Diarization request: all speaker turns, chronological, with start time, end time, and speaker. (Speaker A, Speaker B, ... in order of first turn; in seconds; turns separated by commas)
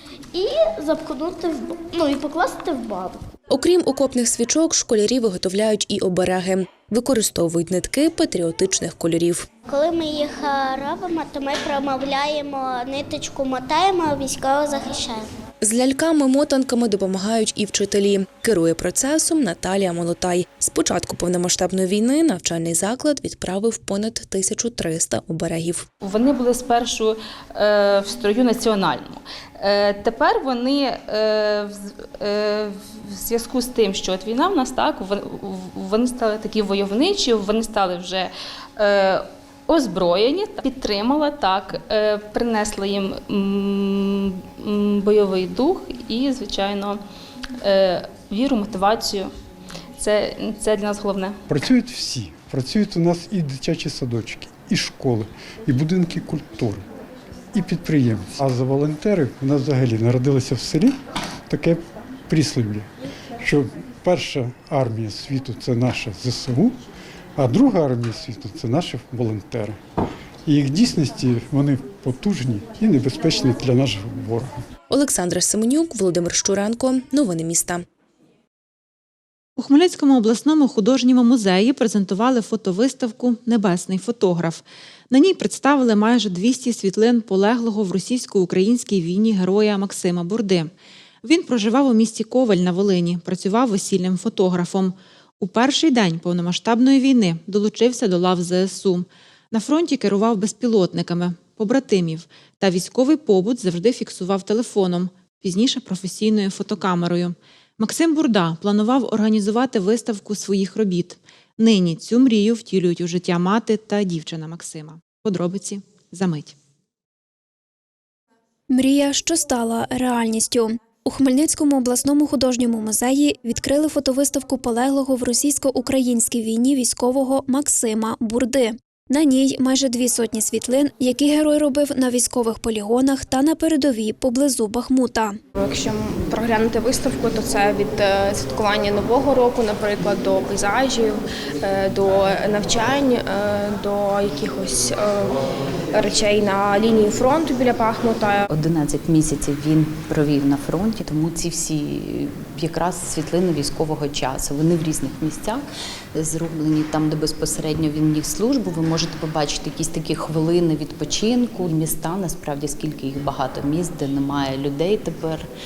Speaker A: 0.3-3.2, Speaker B: 3.5-9.5, Speaker A: 9.7-15.3, Speaker B: 15.6-25.9, Speaker C: 26.0-47.0, Speaker C: 47.6-49.3, Speaker C: 50.0-51.4, Speaker D: 51.5-56.9, Speaker D: 57.5-61.0, Speaker D: 61.5-62.9, Speaker D: 63.4-66.8, Speaker D: 67.4-69.8, Speaker D: 70.5-74.7, Speaker B: 74.9-77.8, Speaker E: 79.6-90.7, Speaker E: 91.2-116.5, Speaker F: 118.7-135.4, Speaker G: 135.6-145.4, Speaker G: 145.9-148.4, Speaker H: 148.5-165.5